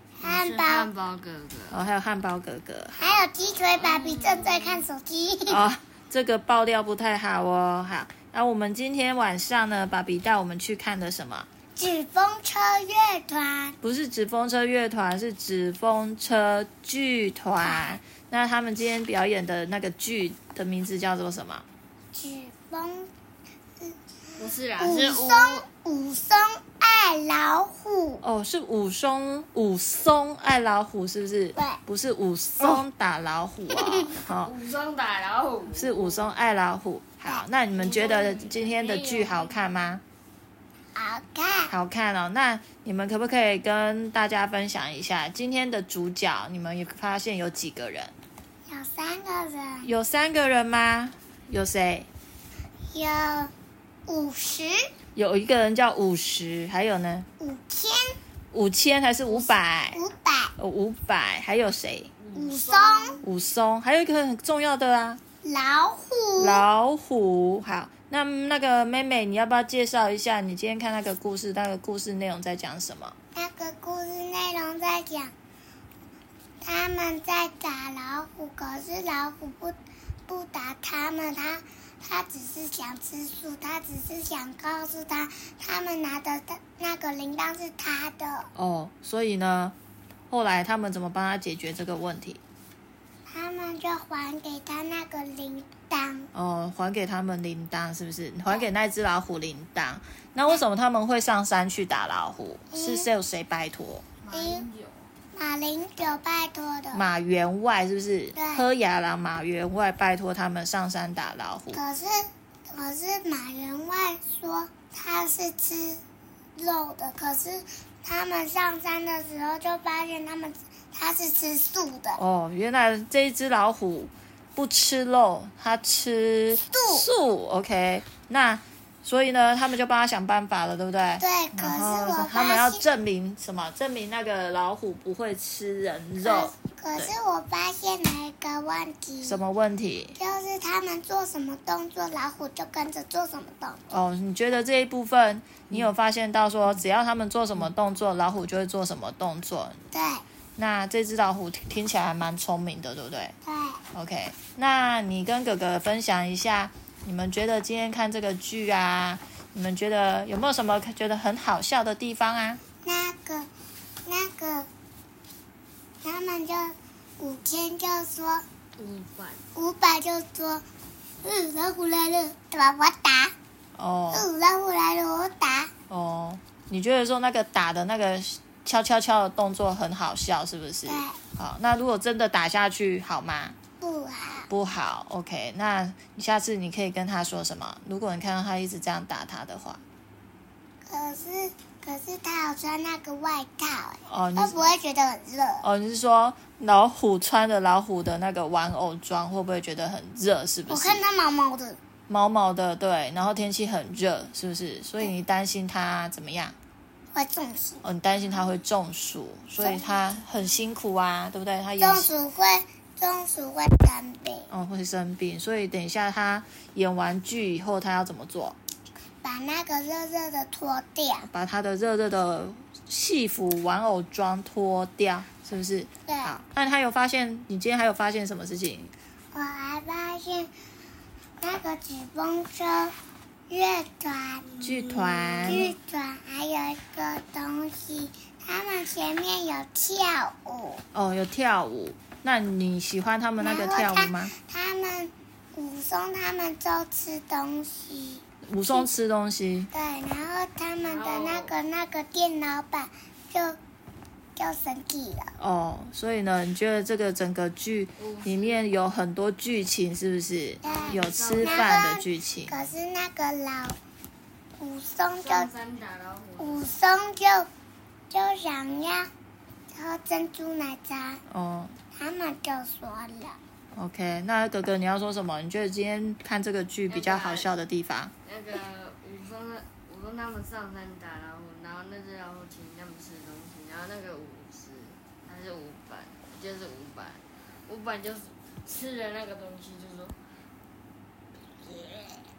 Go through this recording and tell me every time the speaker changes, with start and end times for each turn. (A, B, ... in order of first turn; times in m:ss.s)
0:00.2-0:00.9 A
0:00.2-0:01.8 B
0:01.7-0:03.2 C
0:03.0-0:05.6 A
0:03.8-0:04.8 B
0:05.5-0:11.5 C
0:11.8-0:13.8 A
0:13.8-0:21.6 C
0:17.6-0:18.0 A
0:22.1-0:23.1 A
0:23.8-0:28.2 A
0:24.4-0:25.7 B
0:28.2-0:34.5 C
0:33.7-0:34.1 A
0:34.3-0:36.4 B
0:35.7-0:40.0 C
0:37.7-0:39.6 B
0:41.0-0:41.7 A
0:41.7-0:48.1 C
0:48.7-0:49.9 A
0:49.8-0:52.1 C
0:52.9-0:53.5 A
0:54.1-0:54.9 A
0:55.2-0:57.3 C
0:57.4-0:58.2 A
0:58.5-1:00.0 C
0:59.3-1:00.5 A
1:00.6-1:02.1 C
1:02.2-1:03.2 B
1:02.3-1:03.2 A
1:03.2-1:05.2 C
1:05.4-1:06.6 A
1:06.4-1:13.1 C
1:13.3-1:15.3 A
1:16.6-1:19.8 A
1:20.3-1:28.5 A
1:28.5-1:29.7 C
1:30.3-1:32.4 C
1:33.3-1:36.3 A
1:36.3-1:44.1 C
1:42.7-1:43.1 A
1:44.2-1:45.0 B
1:44.3-1:44.6 A
1:45.3-1:47.0 A
1:46.9-1:51.8 C
1:48.4-1:48.6 A
1:51.7-1:56.0 A
1:56.6-2:02.2 A
2:02.2-2:17.1 C
2:06.7-2:07.1 A
2:11.2-2:12.8 A
2:16.2-2:19.4 A
2:19.2-2:20.2 C
2:20.2-2:24.0 A
2:23.9-2:29.8 C
2:29.9-2:30.2 A
2:30.6-2:33.3 C
2:33.4-2:33.8 A
2:33.9-2:42.6 C
2:42.8-2:43.5 A
2:44.1-2:44.7 A
2:46.0-2:48.4 A
2:48.8-2:49.4 B
2:49.6-2:50.6 A
2:51.2-2:53.3 A
2:53.8-2:54.3 C
2:54.1-2:55.7 A
2:55.9-3:03.6 C
3:00.9-3:01.2 A
3:03.8-3:04.5 A
3:04.5-3:09.8 C
3:10.9-3:15.7 A
3:14.1-3:14.6 C
3:15.6-3:21.0 C
3:20.7-3:21.8 A
3:22.1-3:26.6 C
3:27.1-3:27.8 A
3:27.8-3:32.1 C
3:29.6-3:30.0 A
3:31.8-3:34.5 A
3:34.5-3:38.6 C
3:39.2-3:41.3 A
3:41.3-3:48.9 C
3:46.1-3:46.3 A
3:49.3-3:50.5 A
3:51.4-3:52.9 A
3:53.5-3:54.6 A
3:54.6-3:55.6 B
3:54.6-3:55.8 C
3:55.5-4:00.8 A
4:00.9-4:04.3 C
4:03.4-4:08.9 A
4:08.5-4:09.7 C
4:09.7-4:13.6 A
4:10.8-4:11.5 B
4:14.4-4:15.3 A
4:15.4-4:22.6 C
4:18.0-4:18.6 B
4:20.6-4:21.8 B
4:20.6-4:23.8 A
4:24.6-4:25.5 A
4:25.2-4:26.7 B
4:26.4-4:27.5 A
4:28.1-4:29.1 A
4:29.7-4:31.2 A
4:31.3-4:31.8 C
4:31.9-4:33.4 A
4:33.8-4:38.1 C
4:36.9-4:37.5 B
4:38.2-4:50.2 B